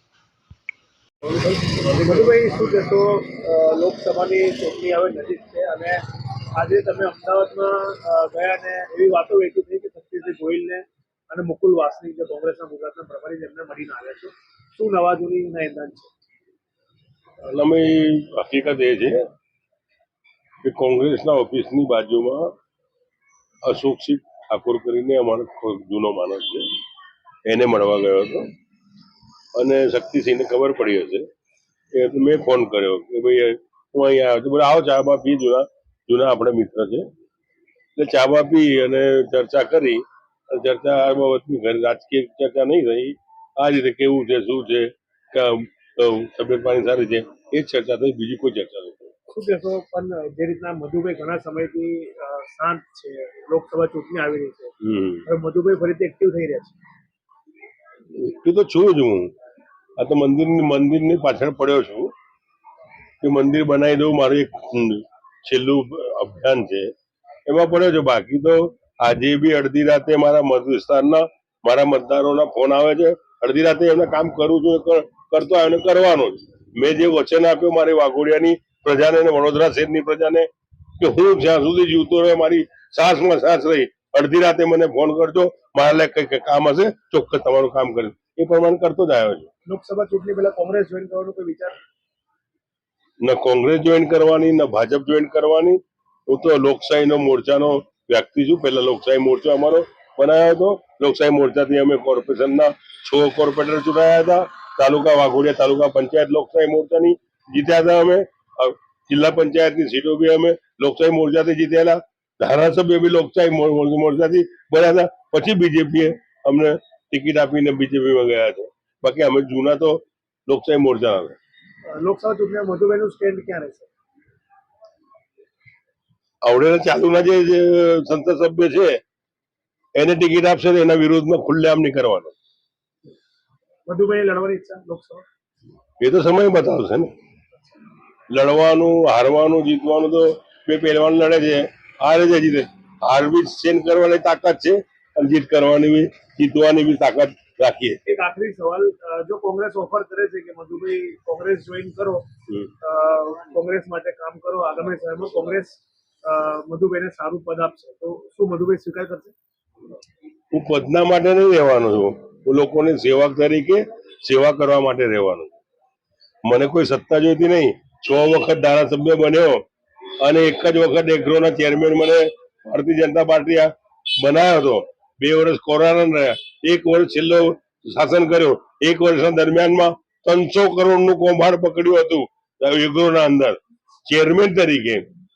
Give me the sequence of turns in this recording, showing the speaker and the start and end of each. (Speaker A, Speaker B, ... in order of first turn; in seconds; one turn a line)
Speaker A: 1.3-6.0
Speaker A: 6.6-16.1
Speaker B: 17.4-19.2
Speaker B: 20.6-22.5
Speaker B: 23.6-26.7
Speaker B: 27.5-28.5
Speaker B: 29.6-31.3
Speaker B: 31.9-37.1
Speaker B: 38.0-49.1
Speaker A: 49.3-54.7
Speaker B: 54.8-55.2
Speaker A: 55.3-56.8
Speaker B: 58.1-59.3
Speaker B: 60.0-62.1
Speaker B: 63.2-66.9
Speaker B: 67.5-89.5
Speaker A: 89.7-91.8
Speaker B: 93.2-121.4
Speaker A: 121.9-123.9
Speaker B: 126.4-129.0
Speaker B: 129.9-132.3
Speaker A: 133.9-135.2
Speaker B: 136.0-137.1
Speaker B: 138.3-148.0
Speaker A: 148.1-152.2
Speaker A: 152.8-159.3
Speaker B: 160.5-165.6
Speaker B: 166.4-169.6
Speaker B: 170.2-185.1